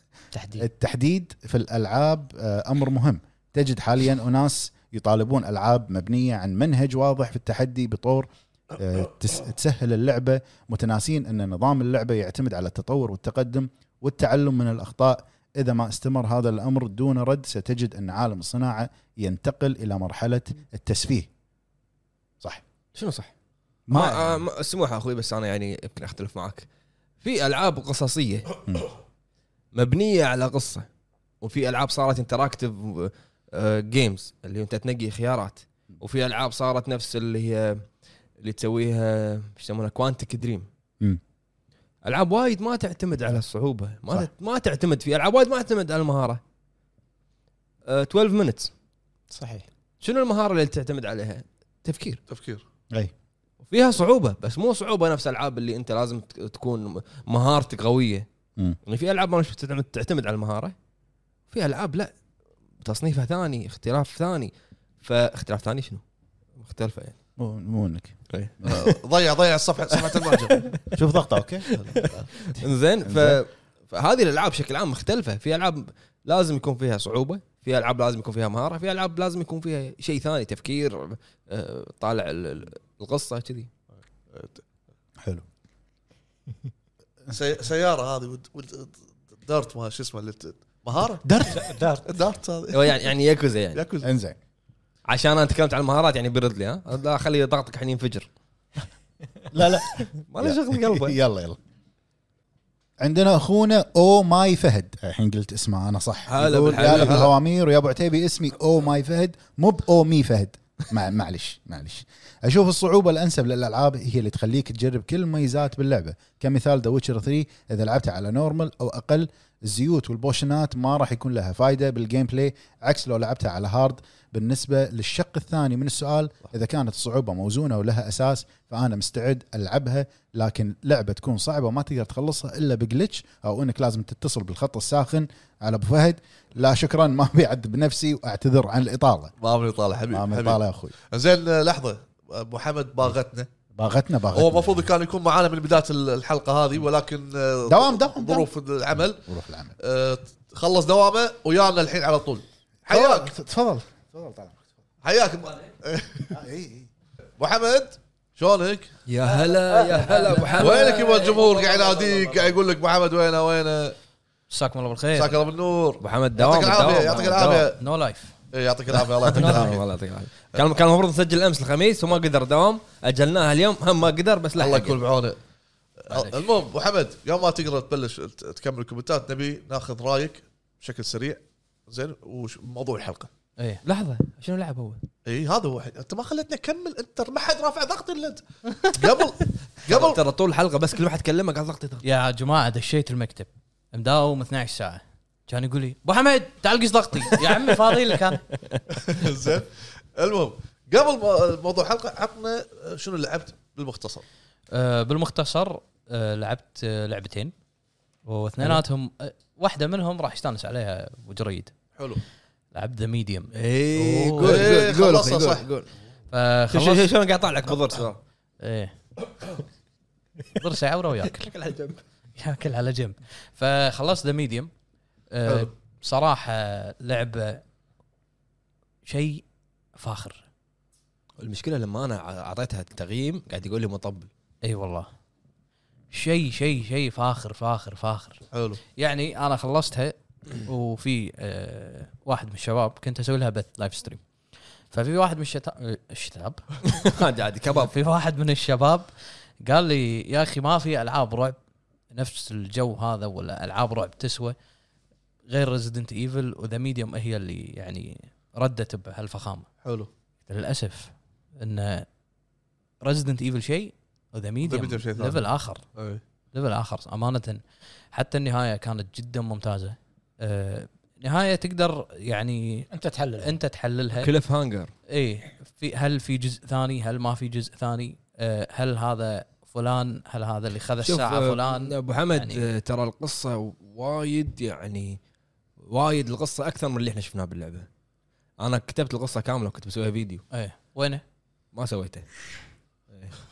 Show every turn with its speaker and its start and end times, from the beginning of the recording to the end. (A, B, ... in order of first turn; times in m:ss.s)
0:00.3-0:00.7 A
0:00.6-0:21.3 B
0:22.9-0:23.3 C
0:23.9-0:24.4 B
0:23.9-0:26.7 C
0:27.2-0:28.5 C
0:29.7-0:30.8 C
0:31.4-0:37.8 C
0:38.4-0:40.7 C
0:42.0-0:46.4 C
0:47.8-0:48.7 C
0:49.3-0:49.6 A
0:50.0-0:52.2 C
0:52.3-0:52.6 D
0:53.7-0:58.2 C
0:58.8-1:00.7 C
1:01.5-1:02.1 C
1:02.8-1:06.0 C
1:06.6-1:07.1 C
1:07.4-1:08.9 B
1:08.3-1:09.0 C
1:08.7-1:10.6 D
1:10.0-1:10.8 C
1:10.9-1:11.7 B
1:11.7-1:12.3 D
1:11.9-1:23.7 C
1:13.0-1:13.4 B
1:24.3-1:24.6 D
1:27.3-1:31.2 D
1:31.2-1:31.6 B
1:31.5-1:32.1 A
1:32.0-1:33.1 D
1:32.7-1:33.8 C
1:33.7-1:34.1 D
1:34.0-1:34.4 B
1:35.1-1:38.3 C
1:39.5-1:41.6 B
1:39.9-1:41.2 C
1:43.0-2:19.3 B
1:46.3-1:47.3 C
1:46.7-1:47.3 D
2:19.4-2:23.5 D
2:20.1-2:20.9 B
2:23.8-2:24.9 B
2:24.3-2:29.2 D
2:27.7-2:28.5 B
2:29.2-2:29.7 B
2:29.8-2:33.3 D
2:32.8-2:34.6 B
2:35.0-2:36.4 D
2:36.3-2:36.9 B
2:37.4-2:38.9 D
2:39.1-2:41.4 C
2:40.4-2:41.9 E
2:40.6-2:44.0 D
2:44.5-2:45.4 E
2:45.1-2:47.8 D
2:46.0-2:47.7 C
2:46.9-2:48.3 E
2:48.5-2:49.8 D
2:49.2-2:55.0 C
2:54.6-2:55.4 D
2:56.0-3:03.3 D
2:56.1-2:56.5 E
3:03.8-3:05.0 C
3:05.2-3:10.2 D
3:09.9-3:12.0 C
3:12.0-3:18.4 E
3:19.0-3:24.2 D
3:24.7-3:27.5 E
3:28.2-3:31.7 E
3:32.0-3:32.2 D
3:32.7-3:34.8 E
3:33.5-3:35.9 C
3:34.4-3:35.6 D
3:36.3-3:37.1 E
3:36.7-3:38.2 C
3:38.6-3:38.9 E
3:40.6-3:41.5 E
3:41.2-3:42.0 C
3:42.4-3:44.7 E
3:45.3-3:47.6 E
3:49.0-3:49.4 E
3:50.0-3:50.4 E
3:51.4-3:54.3 C
3:54.6-3:55.1 E
3:56.1-3:58.4 E
3:58.5-3:58.8 D
3:59.0-4:04.2 E
4:04.9-4:06.6 E
4:06.8-4:07.9 C
4:07.7-4:09.1 E
4:09.6-4:11.6 E
4:12.1-4:14.5 E
4:15.5-4:19.7 E
4:19.8-4:20.1 D
4:20.5-4:22.1 E
4:23.0-4:25.8 E
4:24.6-4:25.4 D
4:26.0-4:26.2 D
4:26.5-4:32.9 E
4:32.9-4:33.6 A
4:33.4-4:34.3 E
4:34.1-4:34.9 C
4:35.1-4:42.7 E
4:41.0-4:45.2 C
4:45.8-4:47.9 C
4:48.6-4:50.4 C
4:50.5-4:51.2 E
4:51.7-4:52.5 C
4:53.1-4:53.4 C